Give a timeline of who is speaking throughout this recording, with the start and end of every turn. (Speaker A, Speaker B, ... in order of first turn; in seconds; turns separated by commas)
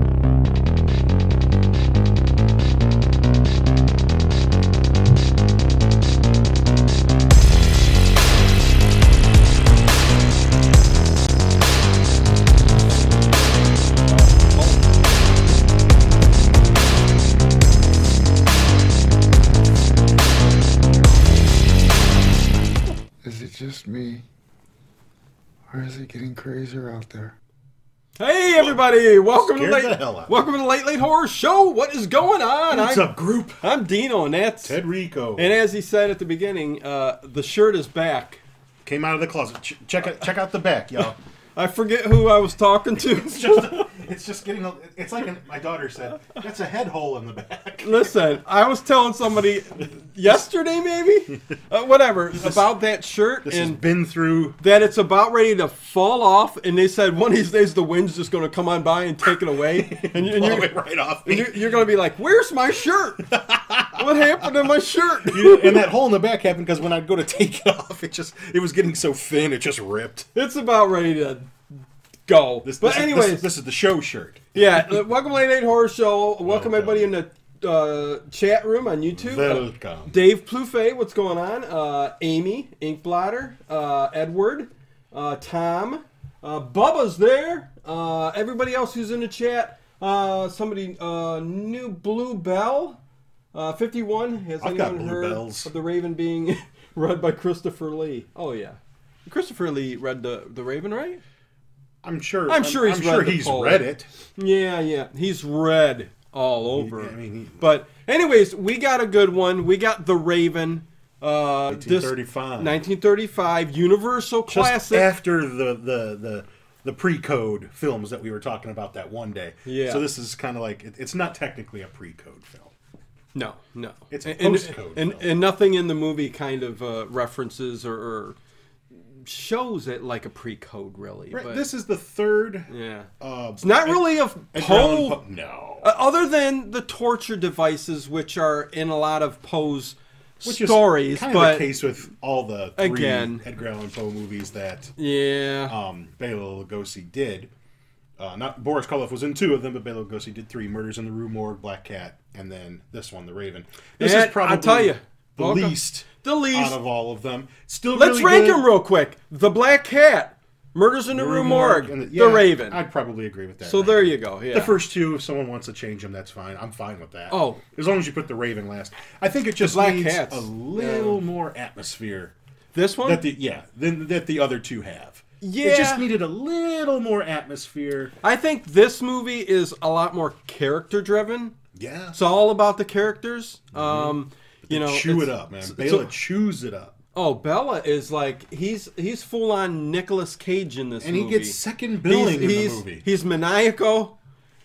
Speaker A: 12.9-14.9, Speaker B: 23.2-24.2, Speaker B: 25.7-27.4, Speaker A: 28.2-34.8, Speaker C: 29.4-30.4, Speaker C: 32.7-33.6, Speaker C: 34.6-35.5, Speaker A: 35.4-38.4, Speaker C: 38.9-41.2, Speaker A: 41.6-43.9, Speaker C: 43.0-48.2, Speaker A: 47.8-53.8, Speaker C: 52.4-52.6, Speaker C: 53.5-54.6, Speaker A: 54.6-60.7, Speaker C: 59.9-61.6, Speaker A: 61.2-63.2, Speaker C: 63.3-64.0, Speaker A: 63.9-65.9, Speaker C: 65.2-70.3, Speaker A: 70.3-71.5, Speaker A: 72.3-73.5, Speaker C: 72.6-75.0, Speaker A: 74.5-93.0, Speaker C: 76.4-77.1, Speaker C: 79.1-80.2, Speaker A: 93.5-101.2, Speaker C: 94.6-95.7, Speaker C: 102.0-104.1, Speaker A: 102.5-115.1, Speaker C: 106.7-107.6, Speaker C: 111.7-112.8, Speaker C: 114.5-122.7, Speaker A: 119.7-120.0, Speaker A: 123.3-128.4, Speaker C: 124.1-125.3, Speaker A: 128.9-131.6, Speaker C: 131.3-135.9, Speaker A: 132.7-135.2, Speaker A: 135.8-141.7, Speaker C: 140.4-144.9, Speaker A: 142.8-143.4, Speaker A: 145.0-145.8, Speaker C: 145.7-147.5, Speaker C: 148.2-158.7, Speaker A: 154.0-156.8, Speaker A: 157.9-162.8, Speaker C: 161.1-172.3, Speaker A: 163.6-164.8, Speaker A: 167.3-167.6, Speaker A: 169.6-171.2, Speaker A: 172.7-173.3, Speaker C: 173.0-178.1, Speaker A: 175.4-176.1, Speaker A: 178.2-181.6, Speaker C: 181.8-182.2, Speaker A: 182.2-186.1, Speaker C: 183.7-186.9, Speaker A: 187.2-194.2, Speaker C: 191.0-193.0